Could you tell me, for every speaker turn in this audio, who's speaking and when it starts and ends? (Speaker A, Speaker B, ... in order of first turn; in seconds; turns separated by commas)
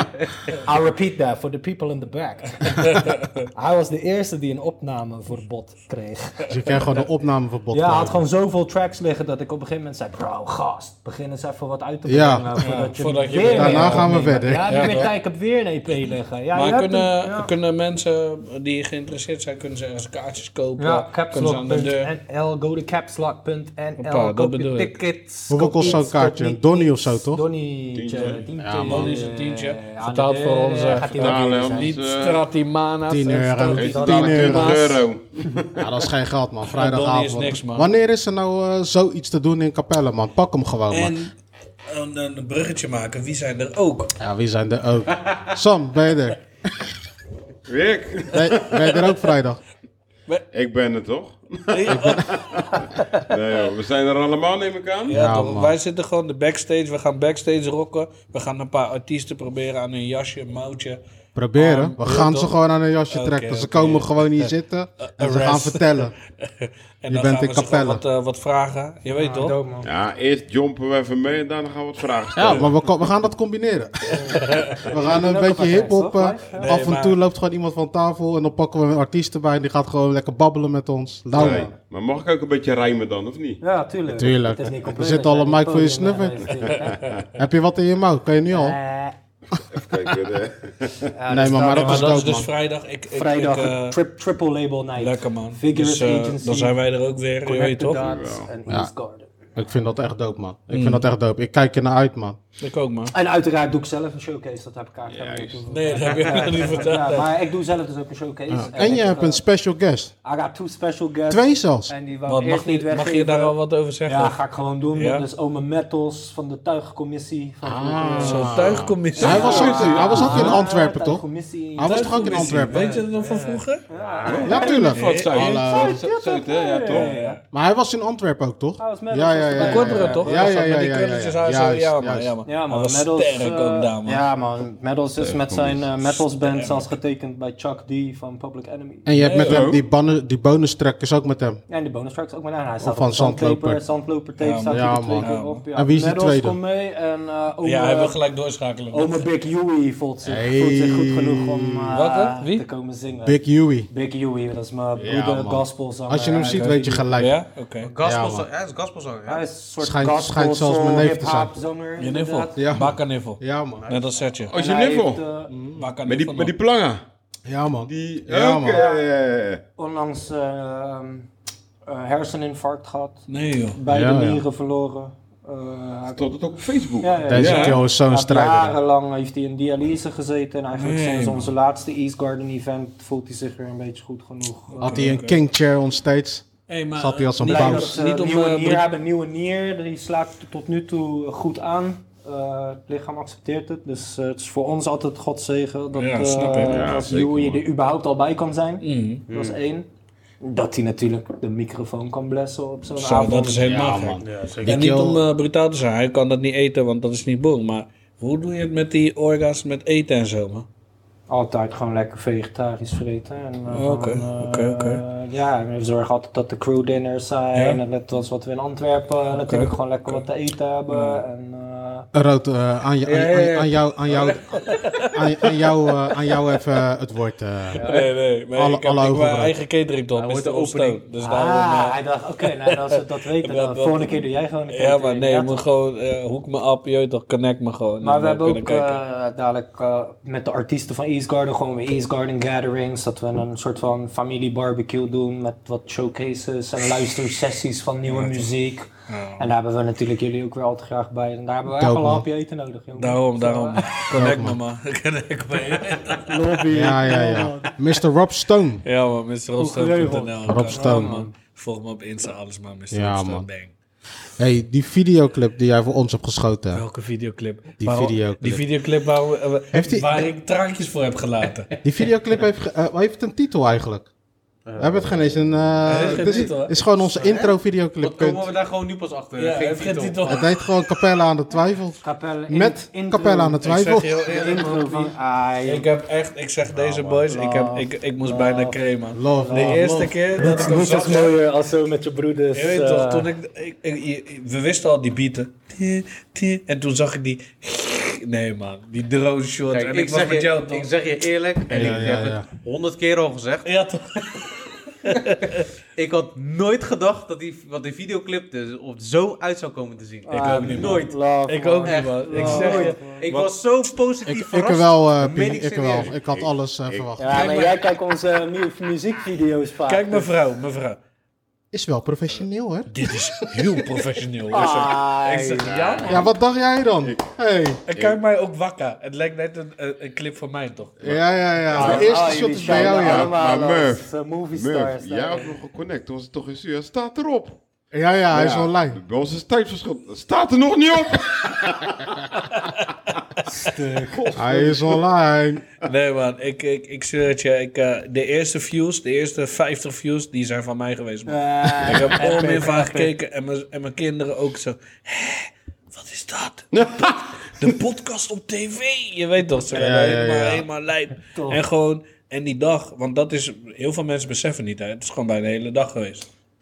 Speaker A: 0.5-6.5, Speaker B: 2.9-3.3, Speaker C: 6.5-8.2, Speaker A: 7.7-17.5, Speaker C: 12.1-12.5, Speaker B: 12.6-15.1, Speaker C: 13.5-15.1, Speaker B: 16.5-22.1, Speaker A: 20.8-32.0, Speaker B: 24.0-25.0, Speaker C: 25.5-27.4, Speaker D: 27.9-28.6, Speaker C: 28.6-29.1, Speaker B: 28.9-35.0, Speaker D: 31.1-32.4, Speaker C: 33.1-34.8, Speaker A: 33.8-34.8, Speaker D: 33.8-35.9, Speaker C: 35.8-41.2, Speaker B: 36.7-37.9, Speaker B: 40.9-41.3, Speaker B: 41.9-44.1, Speaker C: 44.2-46.9, Speaker D: 47.7-48.8, Speaker C: 48.3-49.6, Speaker D: 50.5-55.2, Speaker B: 51.7-52.7, Speaker C: 51.9-52.2, Speaker C: 55.1-55.8, Speaker B: 55.1-61.0, Speaker C: 61.4-66.1, Speaker B: 61.6-62.5, Speaker B: 63.1-64.5, Speaker B: 65.0-69.6, Speaker C: 67.1-68.0, Speaker A: 69.1-69.9, Speaker D: 69.8-72.8, Speaker C: 72.4-81.7, Speaker B: 74.2-74.9, Speaker A: 74.9-76.8, Speaker B: 76.5-77.2, Speaker D: 81.3-83.6, Speaker A: 83.6-87.1, Speaker C: 84.1-86.5, Speaker C: 87.3-88.8, Speaker A: 88.5-89.2, Speaker D: 89.7-91.1, Speaker A: 91.1-92.3, Speaker C: 91.3-92.5, Speaker B: 91.7-94.0, Speaker A: 93.1-96.8, Speaker B: 95.0-98.1, Speaker A: 97.4-99.3, Speaker D: 98.0-98.5, Speaker C: 99.6-102.4, Speaker B: 100.7-101.0, Speaker B: 102.6-103.1, Speaker A: 103.1-109.4, Speaker D: 105.1-105.7, Speaker B: 105.7-107.3, Speaker C: 108.5-110.1, Speaker A: 110.2-113.5, Speaker C: 111.3-111.9, Speaker B: 112.3-114.4, Speaker A: 114.1-122.6, Speaker B: 115.0-115.3, Speaker C: 117.6-121.2, Speaker B: 118.2-120.6, Speaker D: 119.2-120.5, Speaker C: 121.8-122.9, Speaker B: 121.8-123.8, Speaker E: 122.7-124.5, Speaker A: 123.9-127.4, Speaker D: 124.2-127.1, Speaker C: 124.4-126.0, Speaker B: 124.7-125.5, Speaker B: 126.9-127.4, Speaker C: 127.5-132.3, Speaker A: 128.8-130.5, Speaker B: 129.6-134.2, Speaker A: 132.5-139.1, Speaker D: 135.2-135.9, Speaker B: 136.4-136.8, Speaker C: 139.1-141.6, Speaker B: 139.2-139.7, Speaker D: 139.4-139.8, Speaker A: 141.7-148.2, Speaker C: 142.8-143.8, Speaker B: 144.4-145.6, Speaker C: 144.7-146.6, Speaker B: 147.6-149.2, Speaker A: 148.9-157.1, Speaker C: 150.2-151.9, Speaker B: 151.9-152.7, Speaker C: 153.2-153.9, Speaker C: 155.0-157.4, Speaker B: 156.5-157.9, Speaker E: 157.8-159.4, Speaker C: 158.0-158.5, Speaker A: 159.3-162.6, Speaker C: 159.8-161.5, Speaker B: 162.0-164.5, Speaker C: 162.6-163.8, Speaker E: 163.8-164.3, Speaker D: 164.5-165.3, Speaker A: 164.5-165.5, Speaker C: 165.5-165.9, Speaker B: 165.8-166.5, Speaker D: 166.0-167.0, Speaker C: 167.5-168.8, Speaker D: 167.9-169.6, Speaker A: 168.7-169.0, Speaker A: 169.8-171.3, Speaker A: 171.9-176.3, Speaker B: 173.3-173.8, Speaker C: 173.9-174.4, Speaker D: 176.1-177.8, Speaker A: 177.0-185.0, Speaker C: 177.3-178.8, Speaker B: 177.4-177.8, Speaker B: 180.8-181.5, Speaker B: 184.7-185.4, Speaker C: 184.8-187.9, Speaker B: 186.7-188.9, Speaker A: 187.4-199.9, Speaker B: 195.9-196.8, Speaker D: 196.7-197.6, Speaker B: 198.8-199.2, Speaker E: 199.3-199.6, Speaker A: 200.4-203.7, Speaker B: 203.0-210.7, Speaker C: 203.7-205.2, Speaker E: 204.2-204.8, Speaker A: 211.3-222.1, Speaker B: 213.7-215.0, Speaker B: 217.6-217.8, Speaker B: 219.3-220.2, Speaker B: 220.9-221.2, Speaker C: 222.1-227.9, Speaker E: 223.1-224.4, Speaker B: 224.7-225.2, Speaker B: 227.8-232.0, Speaker A: 227.8-228.1, Speaker C: 228.5-229.6, Speaker E: 230.1-231.0, Speaker A: 231.2-235.6, Speaker B: 233.4-239.0, Speaker A: 238.0-254.1, Speaker B: 248.1-248.5, Speaker B: 249.1-249.5, Speaker C: 251.7-252.3, Speaker B: 253.0-256.4, Speaker C: 254.1-254.6, Speaker A: 256.1-257.8, Speaker C: 256.7-258.9, Speaker B: 258.9-263.7, Speaker A: 259.6-261.3, Speaker C: 260.5-261.1, Speaker C: 262.9-263.5, Speaker C: 264.4-266.8, Speaker B: 266.7-271.7, Speaker C: 267.8-268.6, Speaker C: 269.7-270.2, Speaker C: 271.8-274.1, Speaker E: 274.7-275.2, Speaker C: 274.8-278.5, Speaker B: 275.9-276.8, Speaker E: 276.0-280.4, Speaker B: 279.4-280.5, Speaker C: 280.2-284.2, Speaker A: 282.0-283.7, Speaker B: 283.6-285.1, Speaker A: 284.2-285.9, Speaker B: 285.6-291.3, Speaker A: 287.2-288.8, Speaker C: 289.1-290.1, Speaker A: 289.3-293.3, Speaker B: 292.5-300.9, Speaker E: 299.7-303.7, Speaker C: 301.7-302.4, Speaker B: 303.6-305.7, Speaker E: 306.0-311.1, Speaker A: 310.3-313.3, Speaker B: 310.3-313.5, Speaker E: 311.9-316.1, Speaker C: 314.2-317.4, Speaker D: 316.0-317.1, Speaker A: 317.2-320.3, Speaker E: 317.4-317.7, Speaker B: 319.9-321.0, Speaker C: 321.7-323.6, Speaker B: 322.9-326.3, Speaker A: 324.5-325.8, Speaker D: 325.7-326.3, Speaker C: 326.1-327.8, Speaker D: 327.0-327.3, Speaker B: 327.9-331.1, Speaker D: 327.9-328.2, Speaker C: 331.0-333.3, Speaker D: 331.7-337.6, Speaker A: 331.7-335.6, Speaker C: 337.9-339.0, Speaker D: 338.3-342.2, Speaker A: 343.4-344.3, Speaker D: 344.1-344.8, Speaker C: 344.4-345.7, Speaker B: 345.9-366.3, Speaker A: 351.3-353.1, Speaker D: 356.7-357.3, Speaker C: 359.7-360.7, Speaker A: 361.3-361.6